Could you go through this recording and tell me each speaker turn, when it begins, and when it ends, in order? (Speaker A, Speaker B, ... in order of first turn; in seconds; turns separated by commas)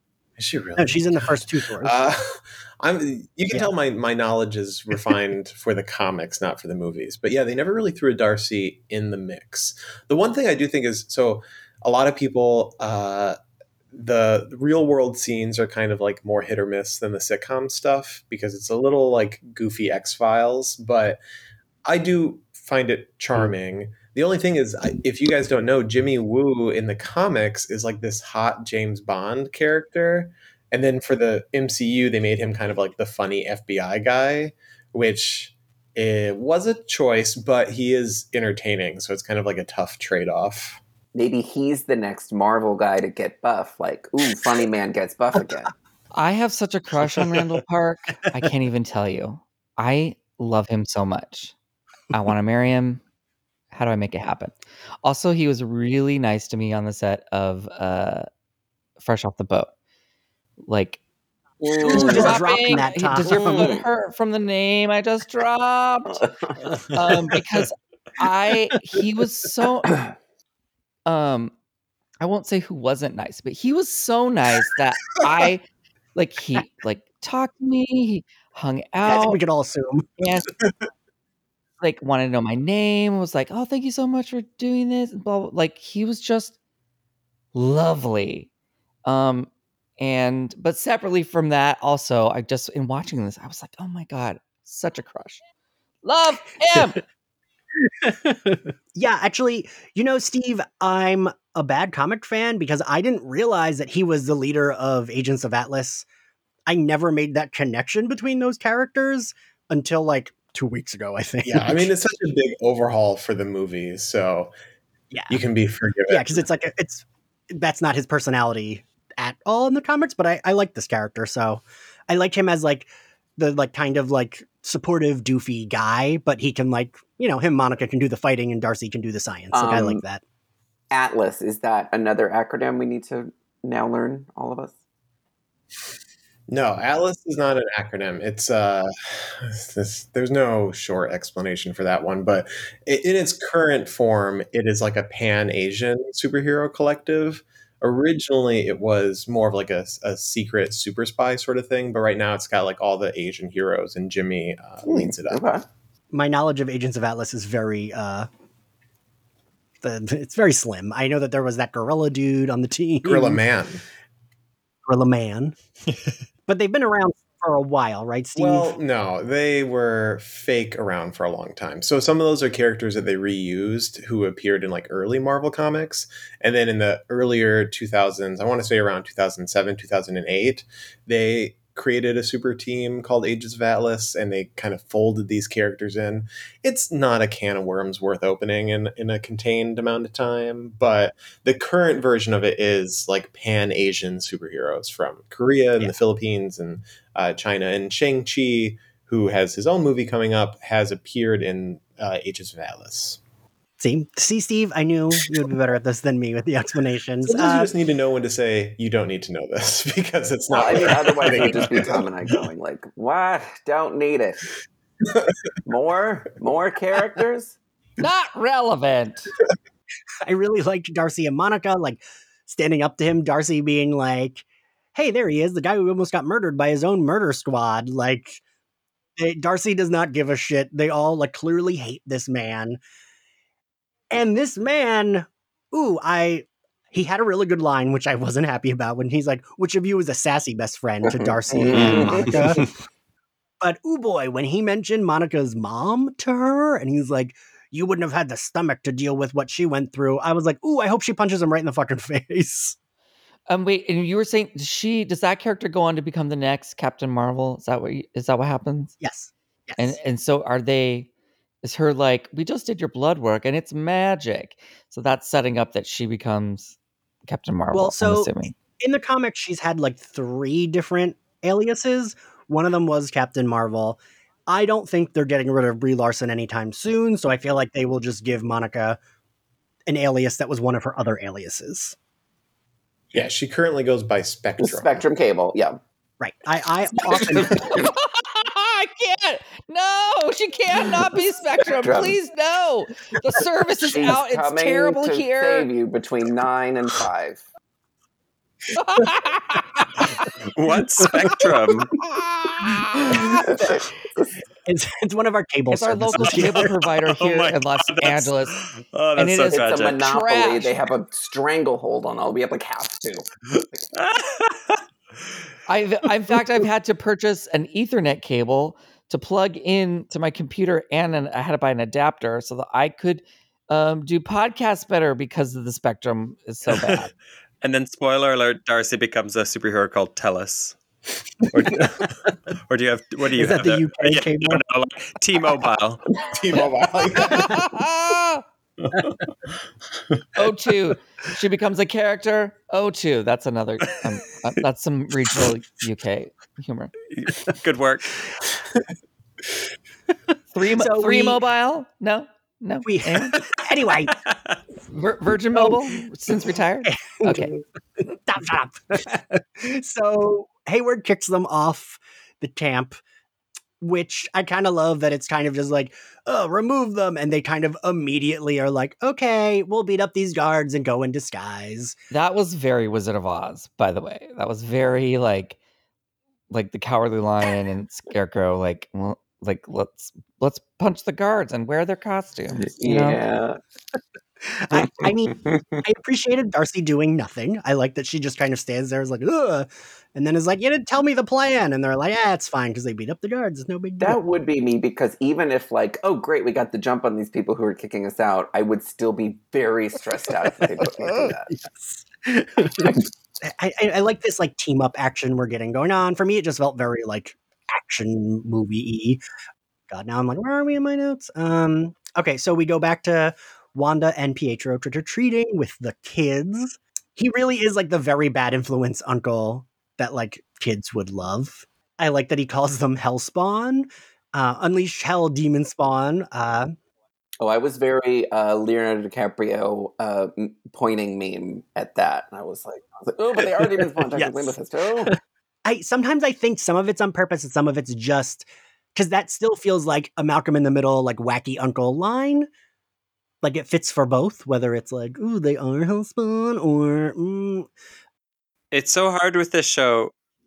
Speaker A: 0.4-13.4, Speaker B: 0.8-2.0, Speaker A: 13.9-21.2, Speaker A: 21.9-40.8, Speaker C: 41.1-45.7, Speaker D: 46.1-51.5, Speaker D: 52.1-53.0, Speaker D: 53.7-58.3, Speaker D: 59.0-59.7, Speaker D: 60.7-61.0, Speaker C: 61.6-62.5, Speaker B: 61.8-63.7, Speaker D: 61.9-66.2, Speaker C: 63.3-63.9, Speaker C: 66.1-67.0, Speaker D: 66.9-70.0, Speaker D: 71.1-71.5, Speaker D: 72.2-75.6, Speaker D: 76.2-79.4, Speaker B: 79.0-80.1, Speaker D: 80.2-80.5, Speaker D: 81.8-86.5, Speaker D: 87.5-88.5, Speaker D: 89.1-95.4, Speaker D: 96.0-97.0, Speaker B: 98.0-106.1, Speaker B: 106.7-111.9, Speaker A: 111.4-114.5, Speaker A: 115.3-116.3, Speaker B: 116.1-130.2, Speaker C: 129.5-130.0, Speaker C: 130.9-134.8, Speaker A: 136.5-155.4, Speaker C: 154.9-155.7, Speaker B: 156.1-158.3, Speaker B: 159.8-163.4, Speaker A: 163.1-163.8, Speaker B: 164.9-165.6, Speaker B: 166.5-168.8, Speaker A: 168.4-203.2, Speaker B: 203.8-207.7, Speaker A: 207.2-212.1, Speaker C: 210.5-214.5, Speaker C: 215.7-217.6, Speaker D: 218.0-219.3, Speaker B: 220.2-228.4, Speaker B: 229.2-232.8, Speaker B: 234.1-242.6, Speaker C: 241.1-242.5, Speaker E: 241.8-242.7, Speaker B: 243.6-252.8, Speaker D: 253.5-258.9, Speaker B: 259.0-260.0, Speaker D: 259.8-261.1, Speaker D: 261.6-266.8, Speaker D: 267.3-268.6, Speaker B: 267.7-279.0, Speaker B: 279.9-282.0, Speaker A: 283.1-285.0, Speaker C: 284.6-285.8, Speaker B: 286.2-287.7, Speaker D: 287.5-295.7, Speaker C: 291.8-292.2, Speaker C: 293.8-297.4, Speaker D: 298.8-299.8, Speaker E: 300.4-303.4, Speaker C: 303.3-304.4, Speaker B: 304.7-306.7, Speaker D: 305.7-308.6, Speaker E: 306.2-310.0, Speaker D: 309.2-310.7, Speaker C: 309.5-313.3, Speaker E: 314.0-314.8, Speaker D: 315.7-327.1, Speaker E: 327.6-330.8, Speaker E: 331.4-336.0, Speaker B: 333.4-334.6, Speaker A: 336.2-337.6, Speaker D: 337.3-338.4, Speaker D: 340.4-346.9, Speaker E: 347.1-348.2, Speaker D: 350.5-353.4, Speaker B: 350.8-351.4, Speaker B: 352.8-354.1, Speaker D: 354.9-357.5, Speaker B: 356.9-363.0, Speaker B: 363.8-372.0, Speaker D: 372.1-375.6, Speaker D: 376.5-383.2, Speaker C: 382.7-383.6, Speaker B: 384.5-394.2, Speaker C: 394.0-401.5, Speaker B: 400.7-409.2, Speaker B: 409.9-426.7, Speaker C: 427.4-435.1, Speaker B: 434.1-442.5, Speaker B: 443.4-447.7, Speaker E: 448.7-450.1